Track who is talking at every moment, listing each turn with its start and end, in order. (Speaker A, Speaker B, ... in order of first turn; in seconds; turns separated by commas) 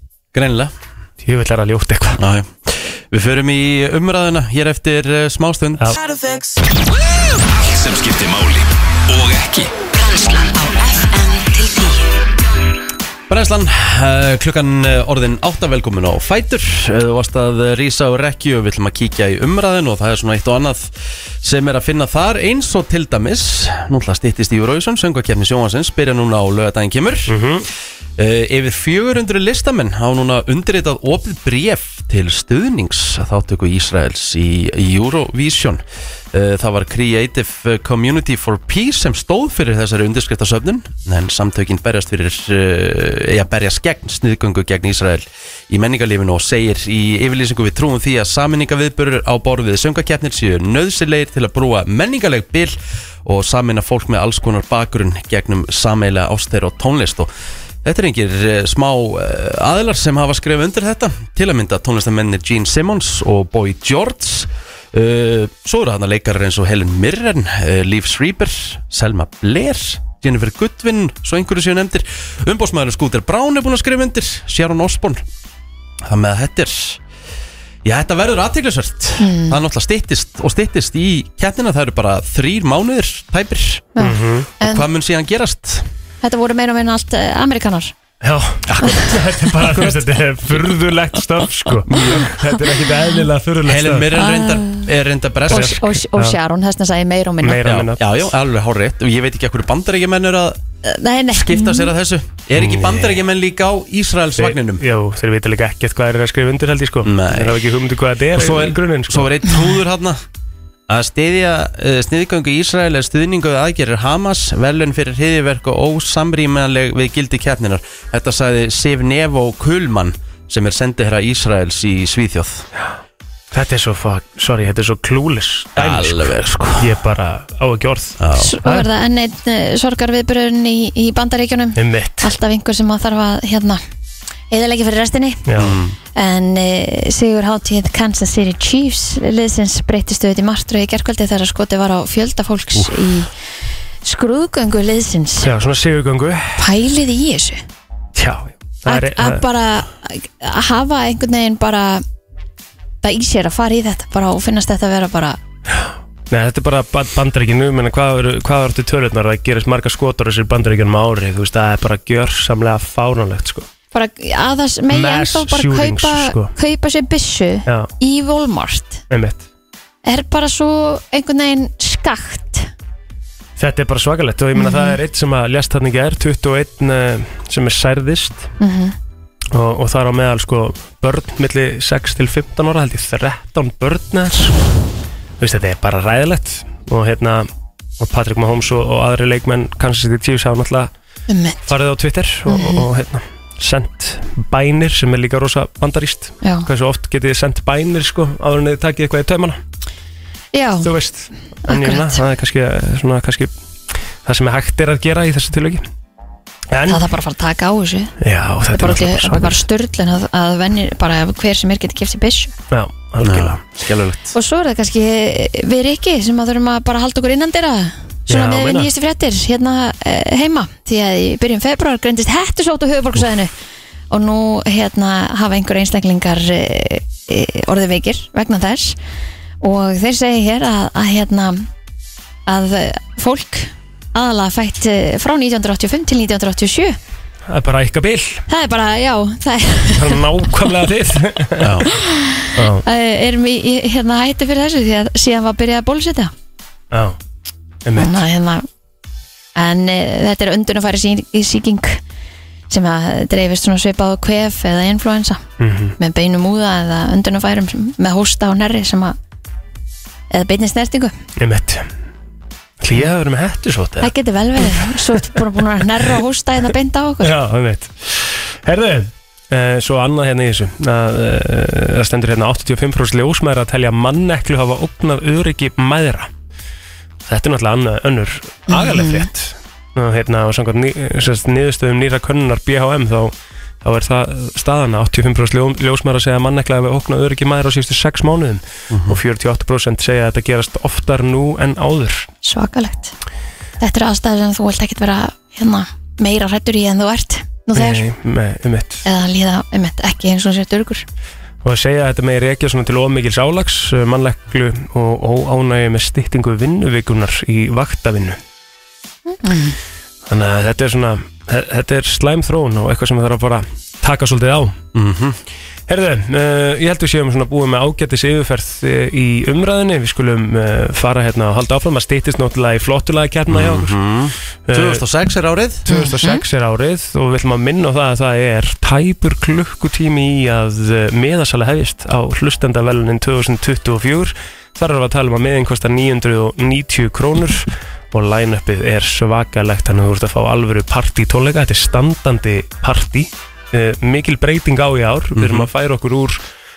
Speaker A: 0.3-0.7, Speaker B: 1.2-2.2, Speaker A: 2.1-6.0, Speaker C: 7.7-9.7, Speaker D: 9.9-12.0, Speaker A: 13.3-27.4, Speaker B: 27.3-27.7, Speaker A: 28.2-57.3, Speaker A: 57.8-75.2, Speaker A: 76.0-77.0, Speaker A: 77.8-83.9, Speaker E: 79.2-79.6, Speaker E: 83.9-84.8, Speaker B: 84.0-84.5, Speaker A: 84.6-85.9, Speaker E: 86.2-87.9, Speaker B: 88.2-94.1, Speaker A: 88.7-90.7, Speaker A: 91.9-92.3, Speaker A: 93.6-95.8, Speaker E: 94.1-94.9, Speaker E: 95.5-97.8, Speaker B: 95.5-96.3, Speaker B: 97.4-98.0, Speaker A: 97.6-100.6, Speaker E: 100.8-101.9, Speaker A: 101.3-104.8, Speaker B: 102.6-103.2, Speaker B: 104.4-109.3, Speaker A: 107.0-107.6, Speaker A: 108.3-110.2, Speaker A: 110.9-122.7, Speaker B: 123.5-128.9, Speaker A: 125.8-127.0, Speaker A: 128.2-128.5, Speaker E: 128.3-133.8, Speaker B: 131.8-132.3, Speaker E: 134.5-135.4, Speaker B: 135.5-135.8, Speaker A: 135.6-136.0, Speaker E: 136.1-143.3, Speaker E: 144.0-145.5, Speaker B: 145.4-146.6, Speaker E: 146.6-147.6, Speaker B: 148.2-149.4, Speaker E: 148.8-152.0, Speaker E: 153.0-155.4, Speaker B: 155.8-163.7, Speaker E: 163.9-169.0, Speaker B: 164.9-166.5, Speaker B: 169.1-169.4, Speaker E: 170.0-172.7, Speaker B: 173.6-178.5, Speaker E: 174.6-175.0, Speaker E: 178.6-178.9, Speaker B: 179.5-184.6, Speaker B: 185.4-187.5, Speaker B: 188.0-190.9, Speaker E: 191.3-191.7, Speaker B: 191.7-199.6, Speaker E: 192.5-192.9, Speaker E: 200.5-200.9, Speaker B: 200.8-203.5, Speaker E: 201.7-202.2, Speaker B: 204.2-205.8, Speaker B: 206.7-207.0, Speaker E: 206.9-208.1, Speaker B: 208.2-209.6, Speaker E: 208.7-212.5, Speaker B: 212.7-213.6, Speaker A: 213.2-214.3, Speaker E: 214.3-223.5, Speaker B: 218.3-218.9, Speaker E: 224.1-228.9, Speaker E: 229.6-231.7, Speaker E: 232.5-237.0, Speaker B: 237.5-238.4, Speaker E: 238.5-240.6, Speaker B: 239.9-241.8, Speaker A: 241.6-241.9, Speaker E: 241.8-246.3, Speaker B: 242.6-242.8, Speaker B: 246.9-247.2, Speaker B: 247.8-248.2, Speaker E: 247.9-248.7, Speaker E: 249.6-252.0, Speaker E: 252.7-255.4, Speaker B: 255.6-255.9, Speaker E: 256.0-259.2, Speaker E: 260.3-261.1, Speaker B: 261.4-261.8, Speaker B: 262.8-265.2, Speaker E: 264.0-267.3, Speaker B: 267.2-276.3, Speaker B: 277.2-292.3, Speaker E: 278.7-279.3, Speaker A: 288.9-289.2, Speaker E: 292.4-293.1, Speaker E: 293.8-298.0, Speaker B: 297.7-299.0, Speaker E: 299.0-301.0, Speaker B: 301.6-308.4, Speaker E: 309.3-309.8, Speaker B: 310.3-314.8, Speaker A: 314.9-315.4, Speaker B: 315.9-323.9, Speaker A: 323.5-325.8, Speaker B: 324.7-325.0, Speaker B: 325.9-346.4, Speaker E: 325.9-326.4, Speaker A: 345.3-345.7